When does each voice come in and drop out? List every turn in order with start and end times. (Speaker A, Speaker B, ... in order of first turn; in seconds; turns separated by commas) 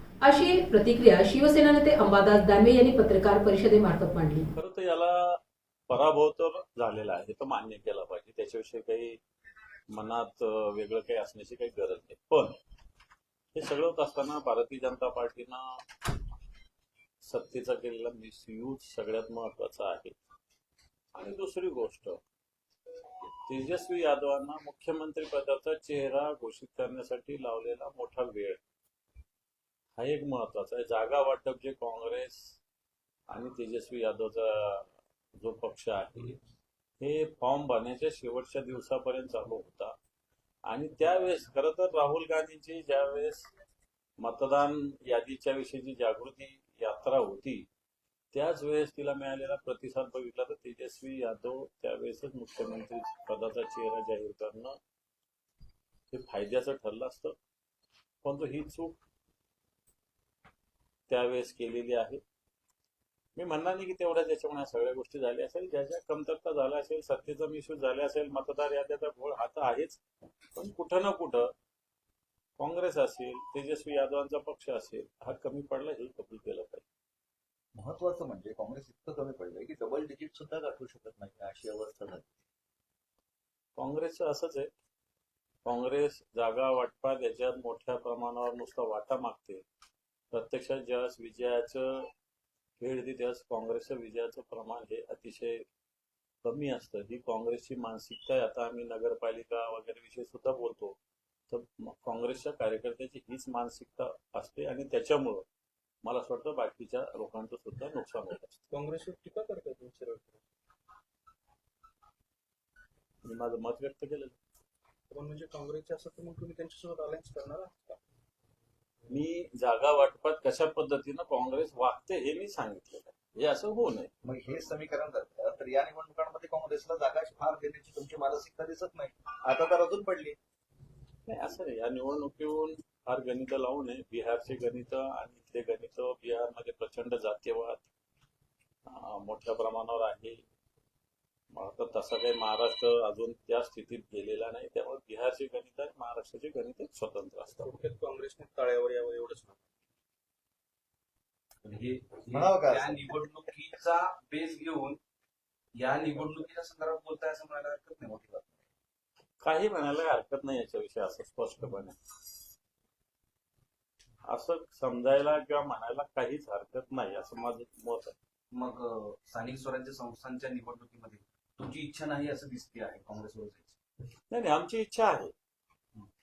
Speaker A: 0.2-4.5, Speaker B: 4.5-9.2, Speaker B: 9.9-12.6, Speaker B: 13.5-15.8, Speaker B: 17.2-20.1, Speaker B: 21.1-22.2, Speaker B: 23.4-28.6, Speaker B: 30.0-32.5, Speaker B: 33.3-36.4, Speaker B: 37.0-39.9, Speaker B: 40.6-43.5, Speaker B: 44.2-47.7, Speaker B: 48.3-54.8, Speaker B: 56.1-57.4, Speaker B: 58.2-59.0, Speaker B: 61.1-62.2, Speaker B: 63.4-70.0, Speaker B: 70.5-71.5, Speaker B: 72.6-76.8, Speaker C: 77.7-82.3, Speaker B: 83.8-84.7, Speaker B: 85.6-89.6, Speaker B: 90.3-92.1, Speaker B: 92.8-95.6, Speaker B: 96.4-101.0, Speaker B: 101.5-105.5, Speaker B: 106.0-108.6, Speaker D: 108.7-110.4, Speaker B: 113.2-114.4, Speaker D: 115.1-118.0, Speaker B: 119.1-124.1, Speaker C: 124.2-130.4, Speaker B: 131.3-137.8, Speaker B: 138.8-140.4, Speaker B: 141.5-147.7, Speaker D: 147.6-149.7, Speaker E: 151.6-155.0, Speaker C: 152.3-153.0, Speaker E: 155.7-158.5, Speaker B: 159.4-162.0, Speaker B: 164.3-168.1, Speaker E: 168.5-173.8, Speaker B: 174.3-175.3